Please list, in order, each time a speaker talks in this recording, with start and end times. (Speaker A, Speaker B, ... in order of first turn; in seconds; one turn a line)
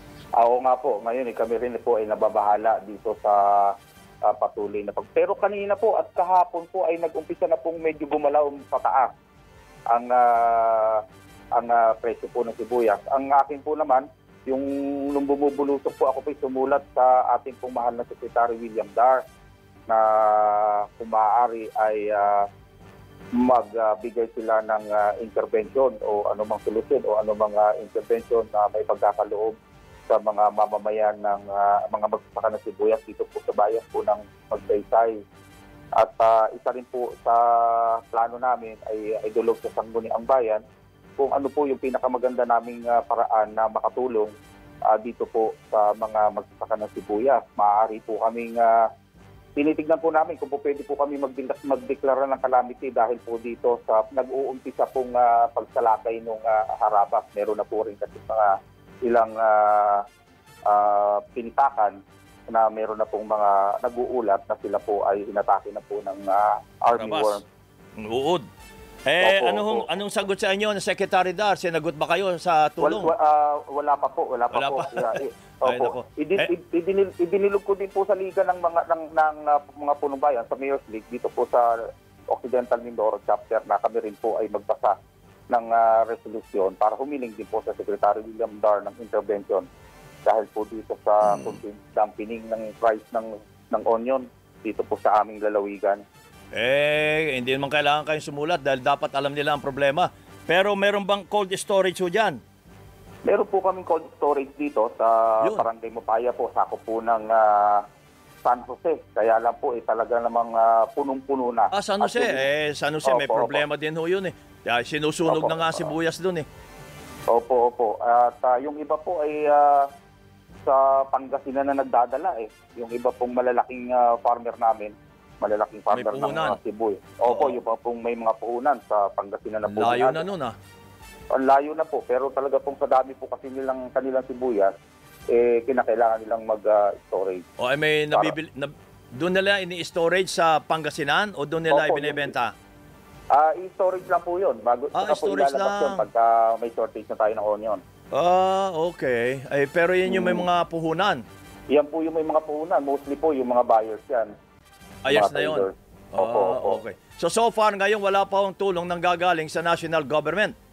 Speaker A: 0.4-3.7
Speaker A: 4.3-9.1
Speaker A: 9.9-11.0
Speaker A: 11.6-19.2
Speaker A: 19.9-22.4
Speaker A: 23.4-29.6
Speaker A: 30.1-35.2
Speaker A: 36.0-40.6
Speaker A: 41.2-44.3
Speaker A: 44.9-48.8
Speaker A: 49.6-58.5
Speaker A: 59.0-60.0
Speaker A: 60.7-62.0
Speaker A: 62.5-67.4
Speaker B: 66.9-67.4
Speaker B: 68.0-68.5
Speaker B: 69.1-73.1
Speaker A: 69.2-69.9
Speaker A: 72.8-81.7
Speaker B: 74.5-76.5
Speaker A: 82.3-85.0
Speaker A: 85.5-89.7
Speaker A: 90.2-96.0
Speaker B: 96.5-102.4
Speaker A: 103.3-107.8
Speaker B: 105.4-105.7
Speaker A: 108.5-112.5
Speaker B: 111.7-116.5
Speaker A: 113.0-113.6
Speaker A: 115.3-115.9
Speaker A: 117.3-119.8
Speaker A: 120.7-130.3
Speaker B: 125.9-126.6
Speaker B: 127.3-127.6
Speaker B: 129.7-130.6
Speaker A: 131.3-134.7
Speaker A: 135.3-137.4
Speaker B: 137.6-142.5
Speaker A: 141.7-142.3
Speaker A: 143.3-147.8
Speaker B: 144.9-146.1
Speaker B: 148.1-151.2
Speaker A: 151.7-154.3
Speaker B: 155.1-160.5
Speaker A: 155.1-156.8